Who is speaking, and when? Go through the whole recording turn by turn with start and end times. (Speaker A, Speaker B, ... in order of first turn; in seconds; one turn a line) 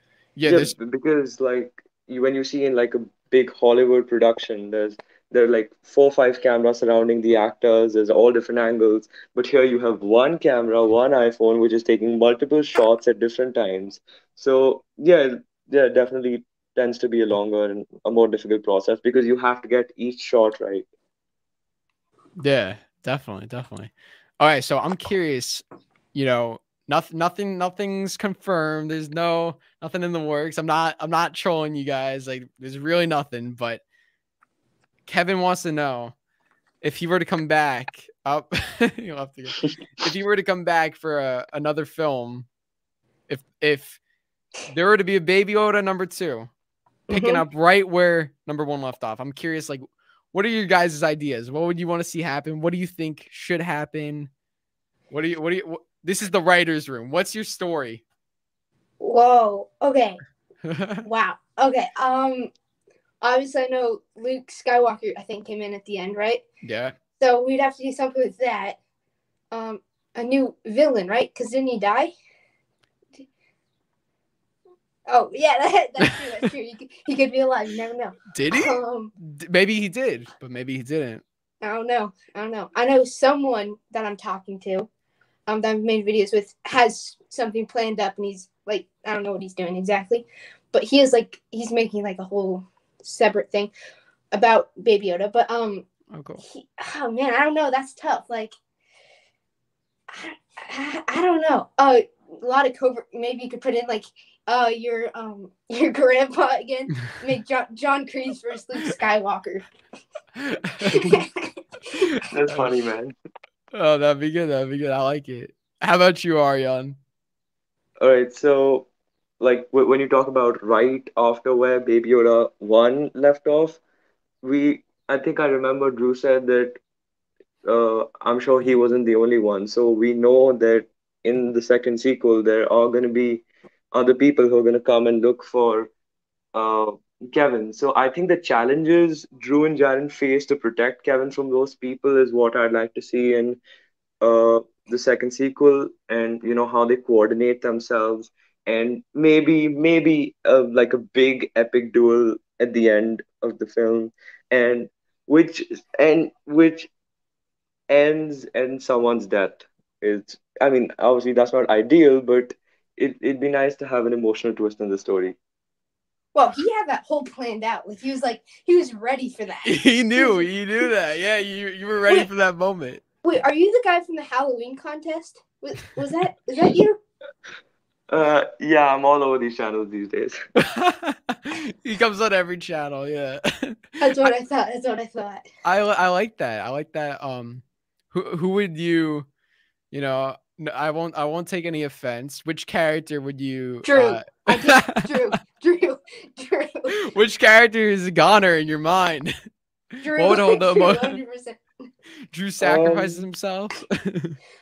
Speaker A: 0.4-0.8
Speaker B: 0.5-20.9
Speaker A: 22.4-33.8
Speaker A: 35.1-36.1
Speaker A: 36.8-42.5
Speaker A: 43.3-44.0
Speaker A: 44.7-46.5
Speaker C: 47.1-47.4
Speaker A: 47.1-54.3
Speaker A: 55.1-58.0
Speaker C: 59.0-60.2
Speaker A: 60.6-61.1
Speaker C: 61.0-62.5
Speaker C: 63.2-66.4
Speaker A: 66.6-67.0
Speaker C: 67.2-68.8
Speaker C: 69.5-72.1
Speaker C: 75.1-79.1
Speaker A: 78.3-81.2
Speaker C: 81.6-84.9
Speaker C: 85.5-93.7
Speaker C: 94.3-95.8
Speaker A: 96.1-96.4
Speaker C: 96.5-98.5
Speaker C: 100.1-109.7
Speaker A: 110.4-111.2
Speaker C: 110.8-111.6
Speaker A: 112.0-112.7
Speaker B: 112.3-113.2
Speaker A: 113.7-117.0
Speaker B: 118.0-118.9
Speaker B: 119.4-123.8
Speaker B: 124.4-126.8
Speaker B: 127.7-135.9
Speaker B: 136.5-143.6
Speaker B: 144.2-156.9
Speaker B: 157.9-165.4
Speaker C: 166.3-170.5
Speaker A: 169.7-173.0
Speaker C: 173.2-177.0
Speaker B: 178.1-180.4
Speaker A: 180.6-184.3
Speaker C: 184.0-185.4
Speaker A: 185.6-189.3
Speaker A: 189.9-195.3
Speaker C: 193.8-196.9
Speaker A: 196.9-199.3
Speaker A: 200.0-201.2
Speaker C: 200.0-201.6
Speaker A: 202.3-204.4
Speaker B: 202.6-203.2